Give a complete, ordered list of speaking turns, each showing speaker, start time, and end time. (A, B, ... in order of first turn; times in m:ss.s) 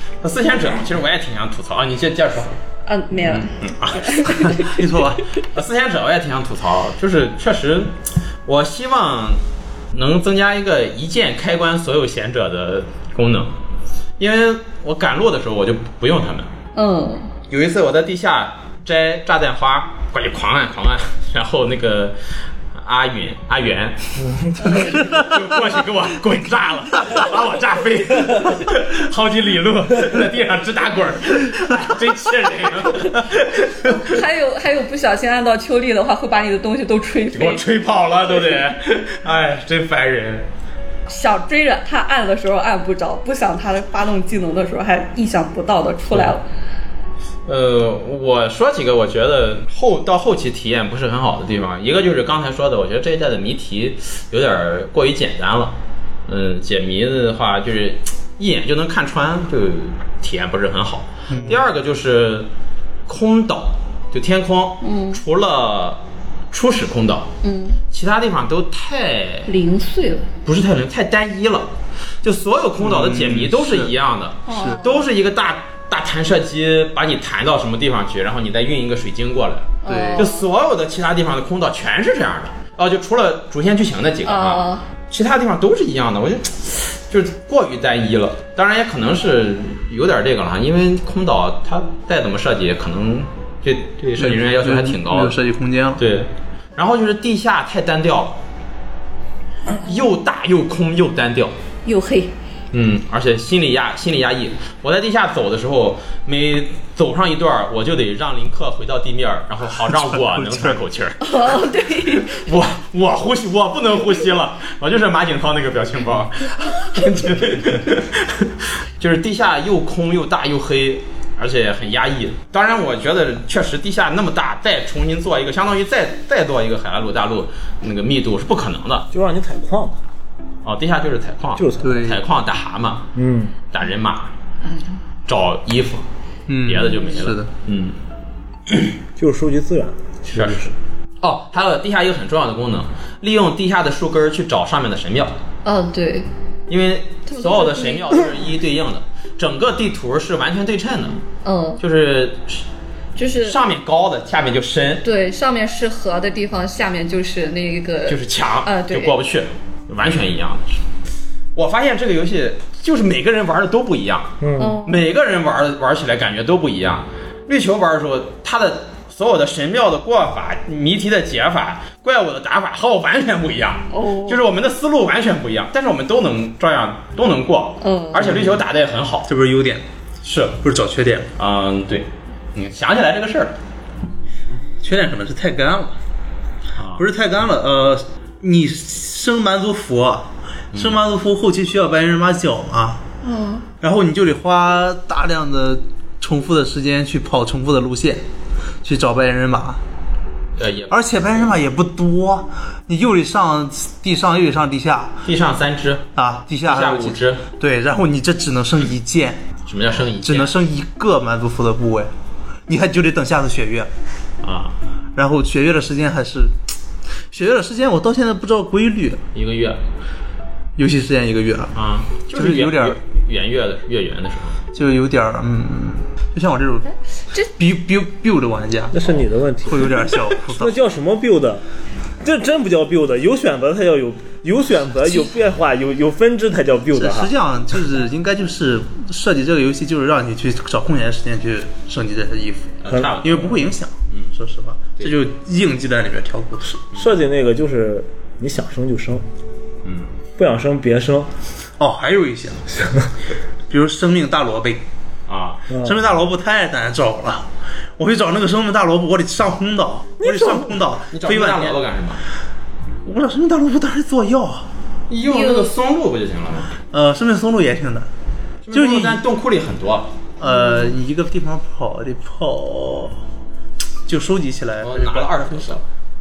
0:00.2-0:02.6 A
0:02.8-0:04.8 B
0:03.2-0:04.7 A
0:04.6-0:05.2 C
0:05.5-0:09.4 A
0:09.9-0:13.5 A
0:14.2-0:16.5 A
0:16.7-0:17.3 B
0:17.5-0:22.2 A
0:22.7-0:34.2 A
0:24.4-0:24.8 D
0:33.8-0:37.6 B
0:37.3-0:40.4 A
0:41.1-0:46.4 B
0:47.4-0:55.7 A
0:56.3-1:02.5 A
1:01.3-1:01.6 C
1:03.1-1:06.0 A
1:04.8-1:05.2 B
1:06.5-1:07.3 A
1:07.4-1:07.8 B
1:07.9-1:09.5 A
1:09.5-1:10.3 B
1:10.4-1:11.7 A
1:12.2-1:35.3 A
1:12.8-1:13.9 C
1:14.5-1:15.0 B
1:14.5-1:14.8 C
1:19.8-1:20.4 B
1:19.8-1:20.3 C
1:24.2-1:24.8 B
1:34.2-1:36.0 C
1:36.0-1:38.4 A
1:39.8-1:41.6 A
1:41.8-1:42.3 B
1:42.7-1:51.5 A
1:49.9-1:50.8 C
1:51.2-1:52.4 B
1:52.1-2:09.1 A
2:09.1-2:10.0 D
2:10.6-2:13.1 A
2:11.6-2:12.1 D
2:11.8-2:12.2 C
2:13.1-2:13.5 D
2:13.7-2:14.3 A
2:15.3-2:16.0 A
2:16.5-2:17.5 C
2:16.6-2:18.0 A
2:19.2-2:20.7 D
2:20.3-2:25.4 A
2:25.6-2:26.3 B
2:26.7-2:31.2 A
2:27.3-2:28.4 B
2:31.4-2:31.8 B
2:31.8-2:32.6 A
2:33.2-2:33.6 B
2:33.4-2:35.0 A
2:35.0-2:39.2 B
2:38.1-2:40.8 A
2:41.5-2:59.3 A
2:44.4-2:44.8 D
2:44.6-2:45.1 B
2:53.9-2:54.4 B
2:57.8-2:58.3 B
2:58.2-2:58.6 C
2:59.3-2:59.8 C
3:00.2-3:00.6 A
3:00.6-3:01.3 C
3:01.4-3:03.6 A
3:04.8-3:06.0 C
3:06.8-3:07.0 A
3:07.0-3:13.0 C
3:10.7-3:11.0 A
3:13.2-3:13.6 B
3:13.8-3:18.2 C
3:18.8-3:19.8 C
3:20.6-3:21.2 A
3:20.9-3:25.2 C
3:25.2-3:26.0 A
3:26.1-3:29.4 C
3:26.6-3:27.4 A
3:29.7-3:30.5 A
3:30.2-3:32.1 C
3:32.7-3:33.9 C
3:34.4-3:34.8 A
3:35.1-3:36.6 C
3:37.3-3:39.2 C
3:39.3-3:39.8 A
3:40.8-3:41.7 C
3:41.7-3:44.6 A
3:42.3-3:43.0 C
3:44.7-3:46.9 C
3:47.6-3:50.8 C
3:48.9-3:51.6 D
3:52.2-3:57.3 D
3:56.9-4:06.9 C
4:02.8-4:03.6 A
4:02.9-4:03.6 D
4:06.9-4:09.2 D
4:09.8-4:10.1 A
4:10.4-4:11.3 D
4:11.8-4:12.8 C
4:13.7-4:14.8 C
4:15.3-4:15.6 A
4:15.7-4:16.0 D
4:15.7-4:17.5 C
4:18.0-4:21.8 C
4:20.2-4:20.8 D
4:21.1-4:22.2 A
4:23.0-4:24.6 C
4:25.1-4:26.7 A
4:25.3-4:25.7 B
4:26.9-4:28.1 C
4:28.6-4:30.1 A
4:28.7-4:29.2 C
4:30.4-4:33.2 C
4:30.4-4:30.8 B
4:34.0-4:35.7 C
4:34.8-4:35.8 A